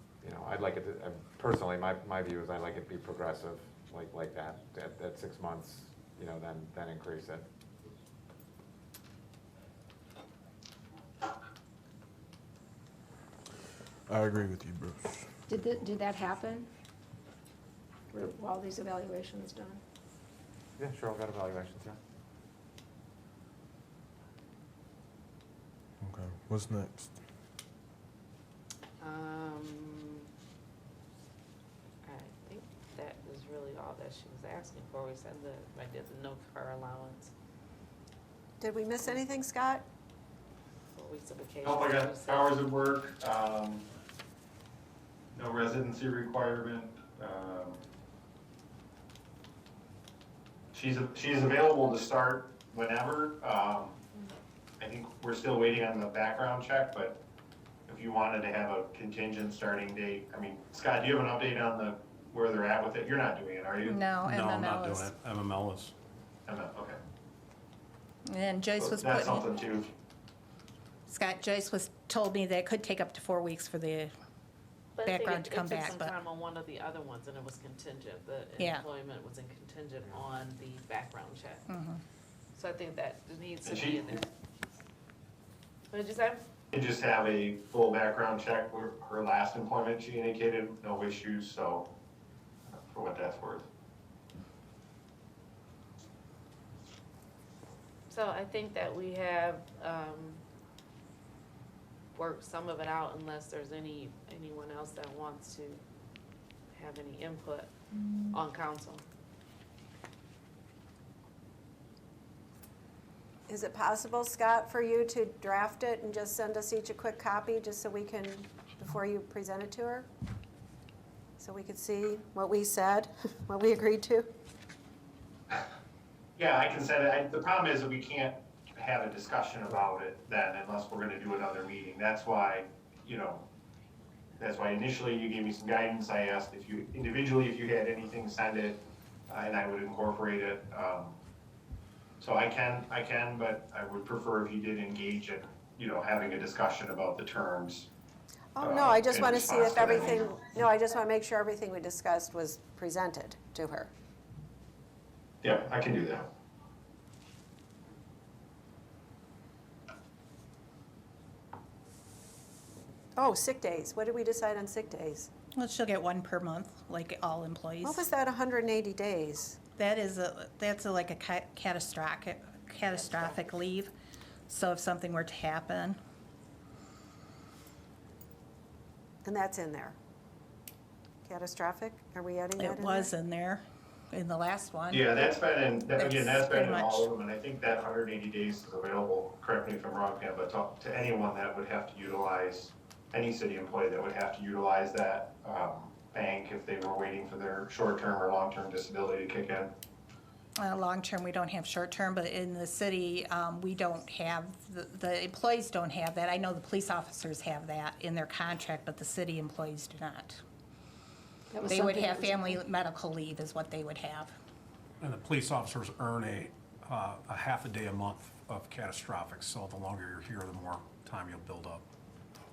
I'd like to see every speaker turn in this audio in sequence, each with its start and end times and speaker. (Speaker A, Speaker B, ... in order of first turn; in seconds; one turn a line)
Speaker A: 0.2-7.5
Speaker B: 14.1-15.3
Speaker C: 15.5-16.7
Speaker C: 18.1-19.8
Speaker A: 20.8-22.0
Speaker B: 26.0-27.1
Speaker D: 29.0-30.3
Speaker D: 32.0-37.3
Speaker E: 38.6-39.8
Speaker D: 40.9-42.5
Speaker F: 41.6-43.9
Speaker F: 45.3-47.8
Speaker F: 50.7-54.0
Speaker F: 54.8-57.2
Speaker F: 57.9-63.9
Speaker G: 63.8-65.1
Speaker H: 64.1-65.9
Speaker F: 66.5-67.0
Speaker G: 68.3-69.5
Speaker F: 68.8-69.9
Speaker G: 71.1-74.1
Speaker D: 75.0-81.7
Speaker G: 75.0-76.1
Speaker G: 78.6-78.8
Speaker G: 81.7-82.0
Speaker D: 82.5-84.2
Speaker F: 83.6-84.2
Speaker D: 85.9-86.4
Speaker F: 86.7-91.9
Speaker F: 92.7-93.7
Speaker D: 98.1-100.4
Speaker D: 102.1-105.8
Speaker D: 106.7-107.7
Speaker D: 108.3-109.0
Speaker E: 113.5-120.1
Speaker E: 121.4-124.3
Speaker F: 126.3-133.5
Speaker F: 134.4-141.2
Speaker F: 142.2-147.9
Speaker E: 148.6-153.9
Speaker F: 148.6-150.3
Speaker F: 155.4-156.3
Speaker E: 163.2-165.3
Speaker G: 165.6-168.1
Speaker E: 167.8-169.6
Speaker G: 169.8-173.9
Speaker D: 173.0-173.4
Speaker G: 174.5-176.0
Speaker E: 179.2-179.9
Speaker E: 181.2-183.1
Speaker G: 182.6-185.1
Speaker F: 184.9-199.7
Speaker G: 185.9-187.1
Speaker G: 200.6-210.4
Speaker C: 211.5-212.6
Speaker G: 211.6-214.3
Speaker H: 215.0-221.8